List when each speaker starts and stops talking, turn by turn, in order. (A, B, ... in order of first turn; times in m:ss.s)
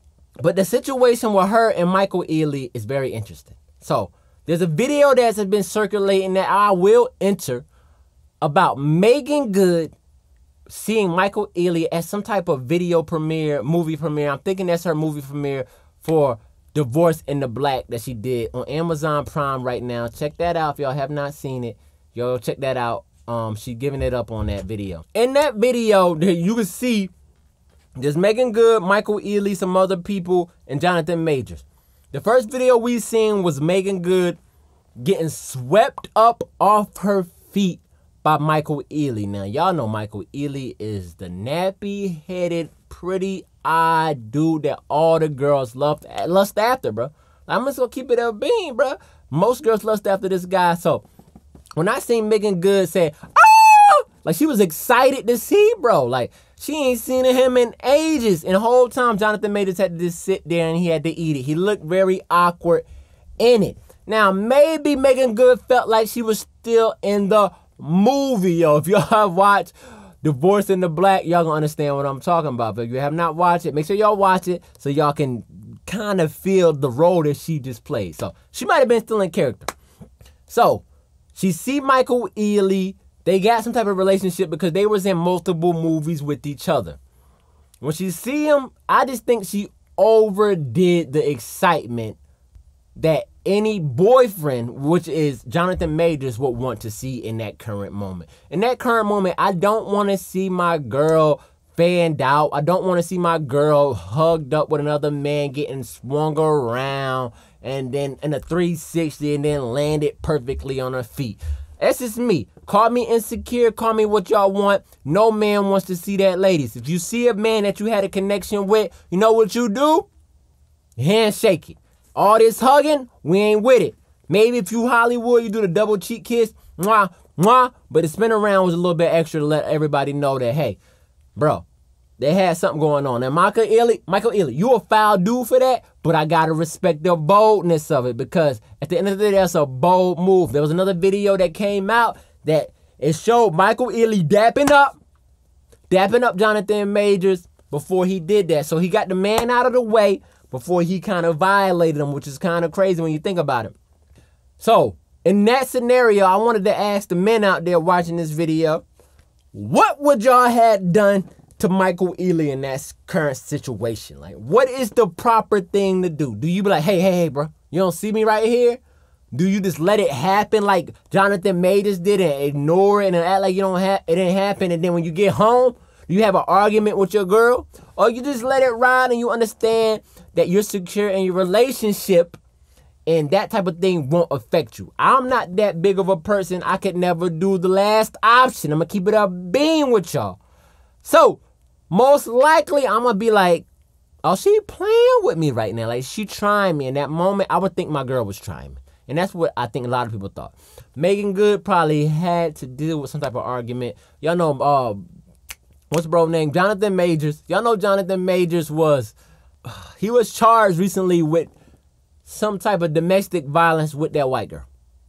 0:00.4-0:07.6 A
0:08.4-0:10.0 A
0:10.7-0:27.1 A
0:28.0-0:34.4 A
0:35.0-0:51.0 A
0:51.8-1:02.9 A
1:03.4-1:19.7 A
1:20.5-1:27.0 A
1:27.8-1:32.2 A
1:33.0-2:00.1 A
2:01.0-2:10.8 A
2:11.4-2:11.7 A
2:12.2-2:25.0 A
2:25.9-2:33.7 A
2:34.6-2:38.8 A
2:39.5-2:48.8 A
2:49.3-3:02.4 A
3:03.1-3:10.4 A
3:11.0-3:13.7 A
3:14.2-3:25.0 A
3:25.9-3:31.5 A
3:32.2-3:34.7 A